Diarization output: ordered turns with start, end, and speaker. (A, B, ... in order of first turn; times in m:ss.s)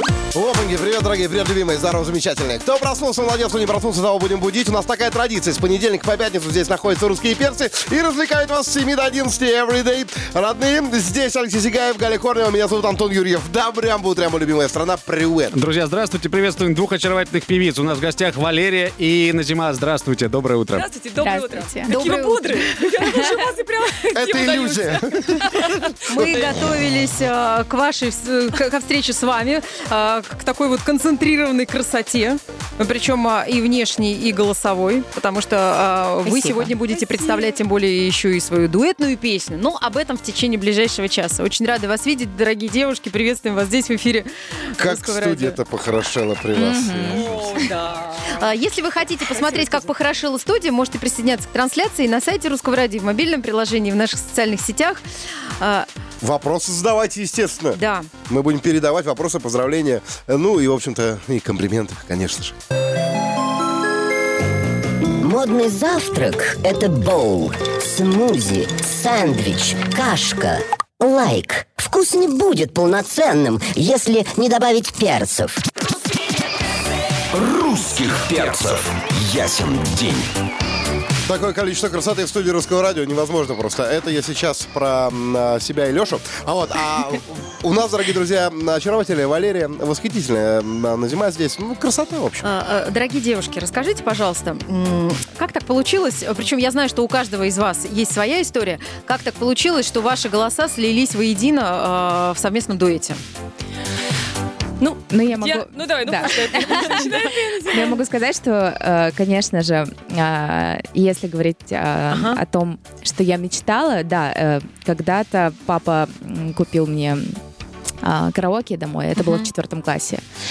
0:00.3-0:15.6 A
0:15.5-0:20.9 B
0:20.7-0:26.6 C
0:21.2-0:22.0 D
0:21.9-0:23.3 E
0:24.1-0:26.3 A
0:26.1-0:45.6 E
0:36.2-0:37.4 D
0:44.8-0:47.4 A
0:46.5-0:47.2 D
0:47.0-0:48.4 C
0:48.3-0:55.0 E
0:49.3-0:49.9 C
0:55.6-0:55.9 E
0:56.2-1:02.6 A
0:57.8-0:58.1 E
1:05.2-1:15.6 F
1:17.3-1:20.3 G
1:21.2-1:32.5 A
1:32.4-1:43.2 E
1:44.8-1:48.0 C
1:45.1-1:57.4 D
1:52.1-1:52.4 E
1:58.0-2:00.2 D
1:59.2-1:59.5 E